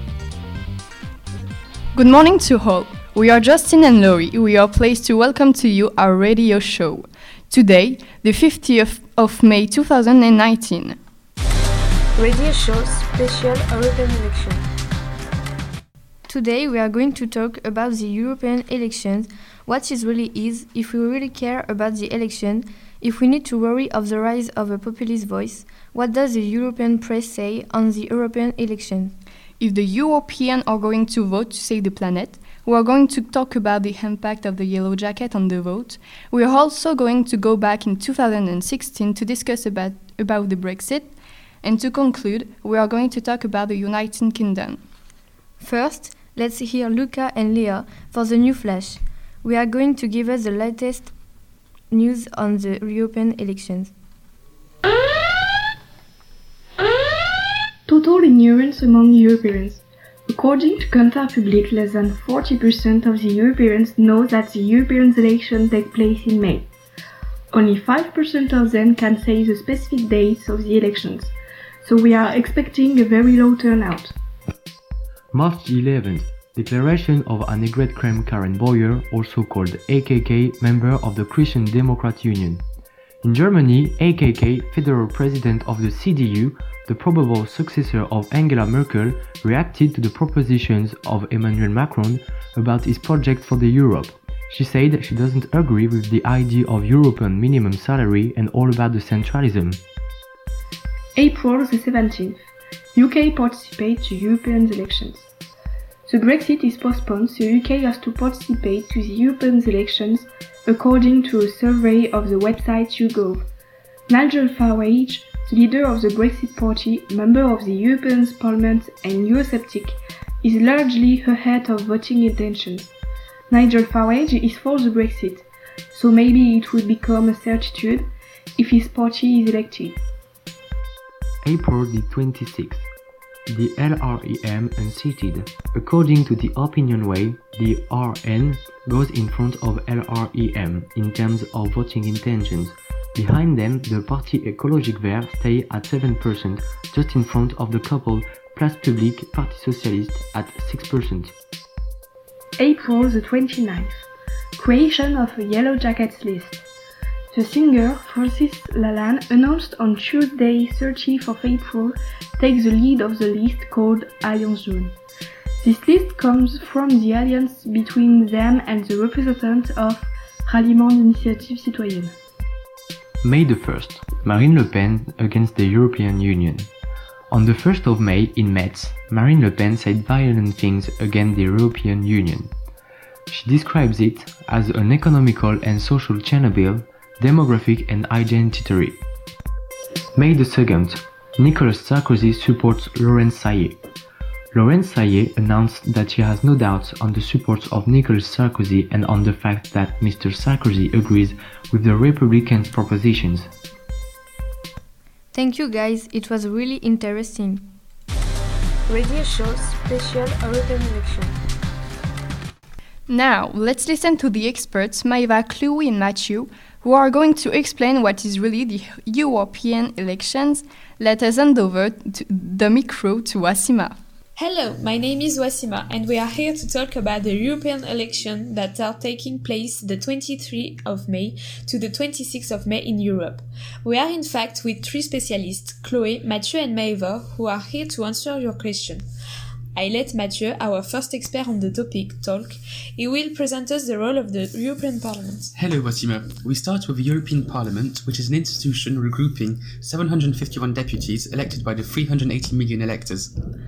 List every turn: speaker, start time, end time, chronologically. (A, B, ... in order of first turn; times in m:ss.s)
0:02.0-0:11.0 A
0:12.2-0:14.6 B
0:16.3-0:29.1 C
0:29.6-0:44.8 A
0:45.6-0:51.1 C
0:51.9-0:53.9 C
0:57.9-1:06.7 D
1:07.5-1:14.2 D
1:15.3-1:22.6 E
1:23.2-1:39.8 E
1:41.2-1:45.3 D
1:46.1-1:53.5 D
1:54.1-2:02.9 D
2:03.5-2:10.0 D
2:11.4-2:12.8 E
2:13.5-2:31.3 E
2:32.6-2:34.0 D
2:34.6-2:36.6 D
2:37.3-2:45.0 D
2:45.6-2:52.2 D
2:53.2-2:56.7 E
2:57.3-3:02.5 E
3:03.3-3:09.0 E
3:10.2-3:13.8 E
3:14.6-3:23.5 E
3:25.3-3:27.7 C
3:28.9-3:31.3 B
3:33.1-3:44.0 A
3:44.4-3:59.0 F
3:59.8-4:05.5 F
4:05.6-4:13.3 G